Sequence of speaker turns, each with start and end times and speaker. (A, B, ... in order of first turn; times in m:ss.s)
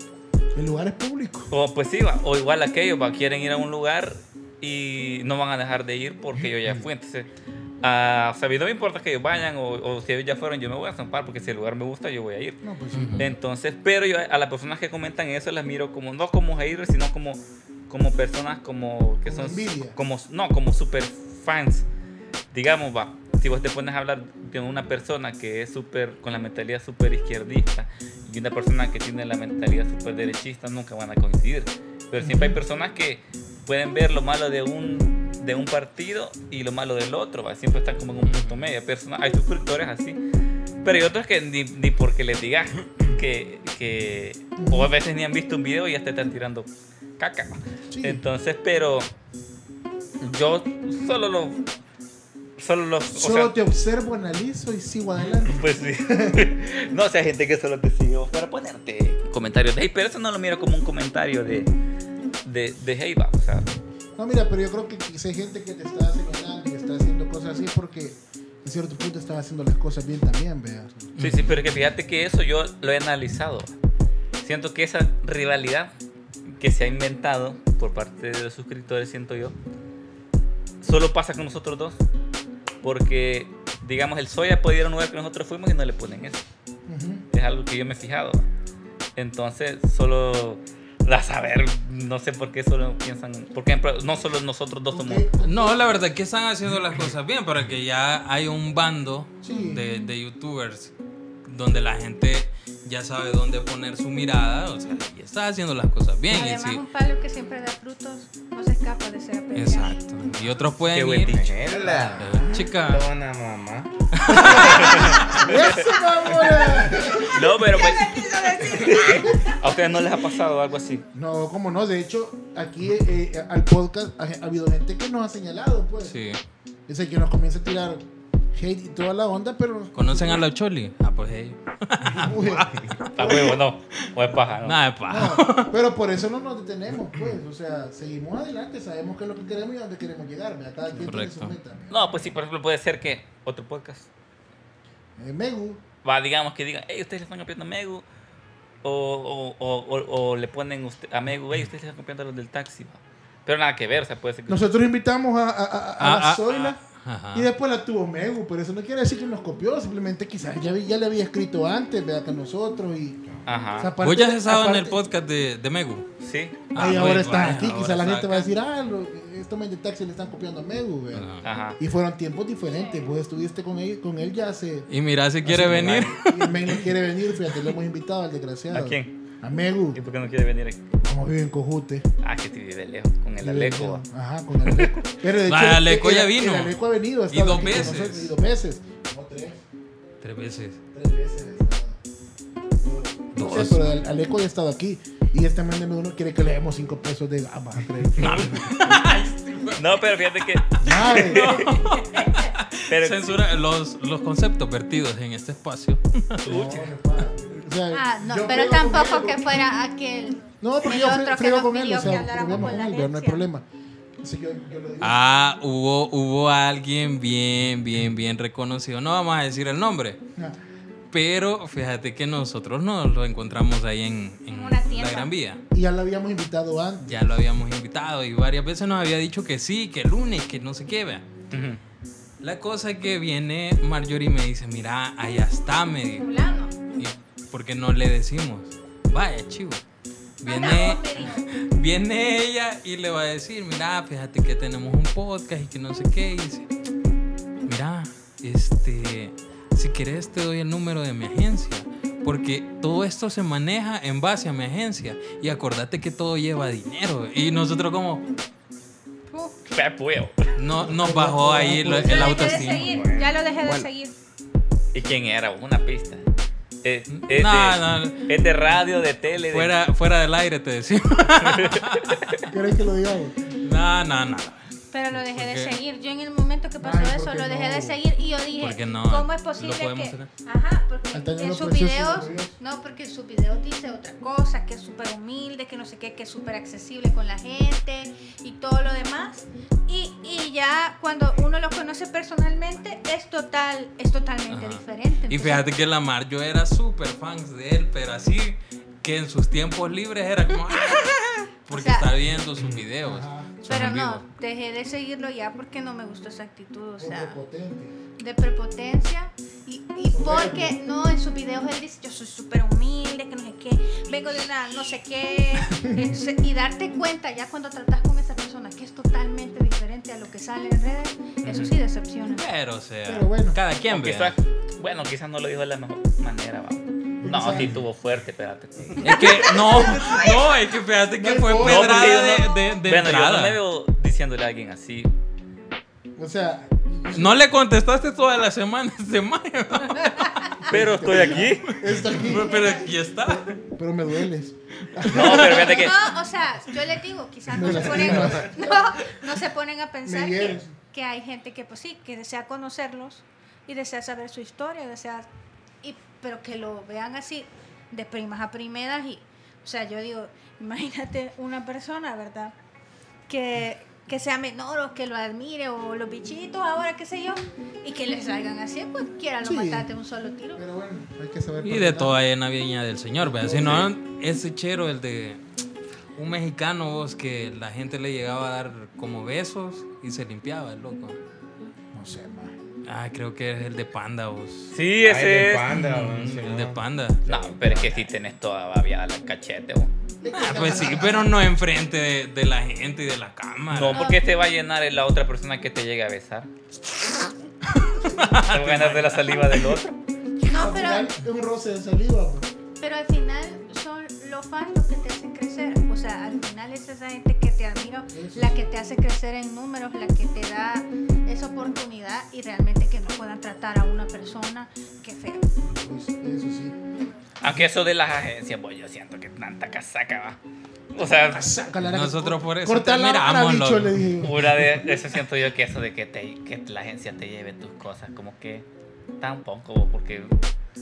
0:00.6-0:01.5 A
0:01.5-0:07.3 B
0:07.8-0:12.6 B
0:12.6-0:13.3 A
0:12.9-0:13.3 C
0:13.2-0:21.8 B
0:19.2-0:20.0 A
0:22.5-0:40.2 B
0:32.2-0:32.6 A
0:38.2-0:38.7 C
0:40.8-0:49.1 B
0:44.6-0:44.9 A
0:47.9-0:48.2 A
0:50.2-0:51.6 B
0:52.6-0:53.5 B
0:53.1-0:56.4 A
0:55.4-1:01.7 B
1:02.4-1:03.7 B
1:04.2-1:10.9 A
1:11.2-1:11.6 C
1:11.2-1:13.7 B
1:14.4-1:15.9 B
1:16.6-1:19.6 B
1:20.8-1:22.0 B
1:22.8-1:26.4 B
1:26.9-1:27.2 A
1:27.3-1:28.5 B
1:29.2-1:35.3 B
1:34.9-1:36.0 A
1:35.4-1:40.9 C
1:39.4-1:39.8 A
1:39.5-1:40.1 D
1:41.5-1:46.8 C
1:46.3-1:50.4 D
1:49.6-1:51.4 C
1:50.8-1:51.6 B
1:51.2-1:53.9 E
1:52.1-1:53.1 C
1:54.1-1:55.2 C
1:54.3-1:57.3 A
1:54.4-1:55.9 B
1:57.2-2:01.0 B
1:57.6-2:00.0 D
2:01.2-2:06.2 A
2:06.0-2:06.4 C
2:06.9-2:10.4 A
2:10.0-2:14.0 C
2:12.0-2:13.6 A
2:13.2-2:14.8 B
2:14.6-2:15.7 C
2:15.1-2:22.3 A
2:21.0-2:21.6 C
2:21.9-2:24.1 B
2:25.2-2:25.8 A
2:26.0-2:28.0 B
2:28.8-2:34.7 B
2:34.5-2:36.8 A
2:36.0-2:37.5 C
2:37.3-2:43.2 A
2:43.5-2:43.9 B
2:43.8-2:45.0 A
2:44.0-2:46.1 C
2:46.2-2:46.6 B
2:46.7-2:48.5 C
2:46.8-2:54.9 A
2:51.1-2:51.5 C
2:51.4-2:51.8 B
2:52.7-2:53.0 D
2:54.9-2:56.9 C
2:55.4-3:00.0 A
2:58.7-2:59.1 B
2:59.9-3:00.8 B
3:01.0-3:02.1 A
3:02.2-3:04.0 B
3:03.4-3:09.6 A
3:05.5-3:06.8 C
3:07.3-3:08.3 C
3:10.2-3:10.8 C
3:10.9-3:12.0 A
3:12.8-3:18.9 A
3:13.4-3:14.0 C
3:18.2-3:26.7 C
3:18.2-3:18.6 B
3:19.8-3:21.9 B
3:20.8-3:21.5 A
3:22.9-3:23.4 B
3:26.4-3:29.6 A
3:26.5-3:26.8 B
3:27.9-3:33.5 D
3:30.6-3:33.7 A
3:32.0-3:32.6 C
3:34.2-3:35.2 A
3:35.0-3:40.2 C
3:41.1-3:45.6 C
3:44.5-3:45.3 D
3:45.7-3:47.2 A
3:47.1-3:51.2 C
3:51.5-3:51.8 B
3:52.4-3:56.3 C
3:56.2-3:56.7 D
3:57.0-3:59.8 C
4:00.4-4:06.7 C
4:00.4-4:01.5 D
4:07.7-4:18.2 C
4:19.3-4:19.6 D
4:19.7-4:20.5 B
4:20.6-4:22.9 C
4:20.8-4:22.7 A
4:22.0-4:24.1 D
4:22.7-4:23.9 E
4:24.9-4:26.2 B
4:26.8-4:29.8 B
4:27.1-4:28.3 C
4:29.4-4:32.2 C
4:31.4-4:32.4 B
4:32.5-4:33.4 A
4:33.6-4:35.8 C
4:34.9-4:55.6 D
4:36.8-4:38.0 A
4:38.6-4:40.3 C
4:41.1-4:42.6 A
4:54.5-5:04.2 C
5:01.7-5:02.1 D
5:03.0-5:03.5 A
5:03.6-5:07.4 D
5:07.0-5:08.0 A
5:08.2-5:22.5 D
5:10.1-5:10.8 A
5:21.4-5:21.7 B
5:22.3-5:24.4 C
5:23.1-5:23.6 A
5:23.9-5:29.3 B
5:27.2-5:27.8 A
5:29.0-5:33.6 C
5:29.7-5:30.2 A
5:30.0-5:30.3 D
5:31.2-5:32.3 A
5:31.6-5:35.1 B
5:36.2-5:37.5 A
5:37.1-5:40.7 C
5:40.7-5:42.7 A
5:40.7-5:41.8 B
5:41.7-5:43.5 C
5:42.4-5:42.8 D
5:43.2-5:45.7 A
5:44.9-5:45.7 C
5:45.1-5:46.0 B
5:45.5-5:55.3 D
5:47.5-5:48.8 A
5:50.0-5:50.7 A
5:55.8-6:02.5 D
6:03.3-6:10.6 D
6:09.4-6:09.9 A
6:10.6-6:12.2 A
6:11.6-6:15.4 C
6:13.2-6:13.9 A
6:16.2-6:21.2 C
6:21.9-6:22.6 A
6:22.8-6:24.8 C
6:24.7-6:25.7 B
6:25.0-6:28.1 E
6:25.7-6:27.2 C
6:27.3-6:29.9 B
6:30.2-6:31.3 A
6:30.4-6:34.1 C
6:33.7-6:36.5 B
6:33.9-6:34.2 D
6:37.7-6:39.8 C
6:38.5-6:40.0 B
6:40.4-6:41.1 D
6:40.4-6:42.5 A
6:42.8-6:55.5 D
6:48.1-6:48.7 A
6:55.8-6:56.8 A
6:57.4-7:00.4 B
7:00.9-7:01.5 B
7:01.3-7:04.8 A
7:01.8-7:04.1 C
7:04.2-7:08.7 B
7:09.2-7:10.4 B